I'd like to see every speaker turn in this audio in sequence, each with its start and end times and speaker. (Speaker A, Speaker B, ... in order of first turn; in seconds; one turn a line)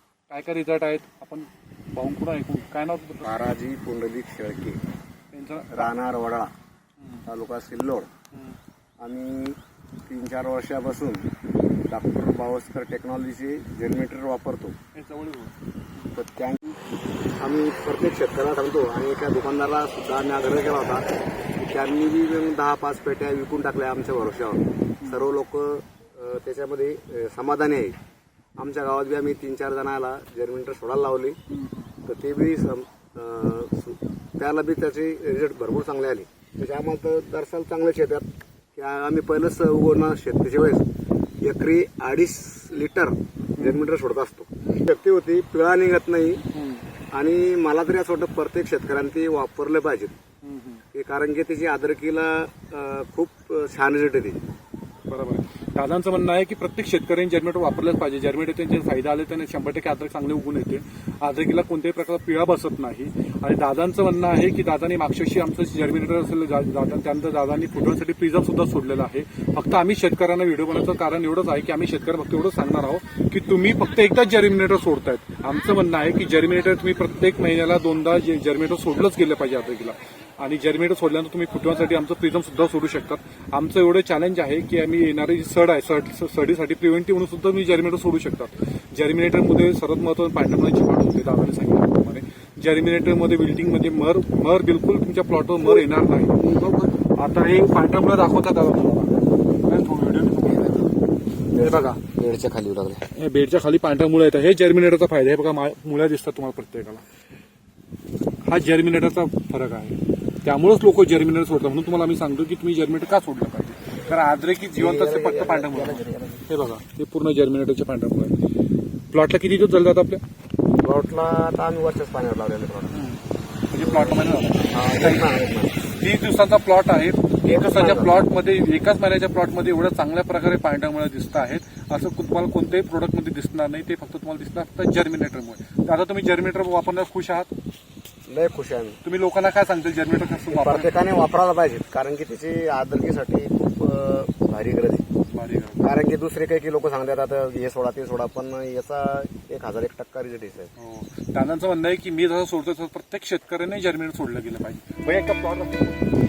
Speaker A: 0.3-3.4
Speaker B: 3.2-4.8
Speaker A: 5.3-5.9
Speaker B: 5.7-6.5
Speaker B: 7.2-8.1
Speaker A: 8.3-8.6
Speaker B: 9.0-11.2
Speaker B: 11.9-14.8
Speaker A: 14.9-15.5
Speaker B: 16.1-16.8
Speaker B: 17.4-27.9
Speaker A: 25.0-25.3
Speaker B: 28.6-31.4
Speaker A: 31.5-31.9
Speaker B: 32.0-40.9
Speaker B: 41.4-46.4
Speaker A: 43.6-43.9
Speaker A: 46.5-46.8
Speaker B: 47.1-50.1
Speaker A: 50.4-50.8
Speaker B: 50.9-54.4
Speaker A: 55.1-100.9
Speaker B: 95.6-96.9
Speaker B: 101.5-103.0
Speaker A: 101.5-102.0
Speaker A: 103.1-107.0
Speaker A: 108.4-118.5
Speaker B: 114.7-116.4
Speaker A: 119.1-120.2
Speaker B: 120.8-123.0
Speaker A: 122.9-137.5
Speaker B: 123.8-125.8
Speaker B: 127.4-128.2
Speaker B: 138.3-139.0
Speaker A: 139.0-140.9
Speaker B: 140.5-145.1
Speaker A: 145.3-145.9
Speaker B: 145.8-150.7
Speaker A: 150.8-155.9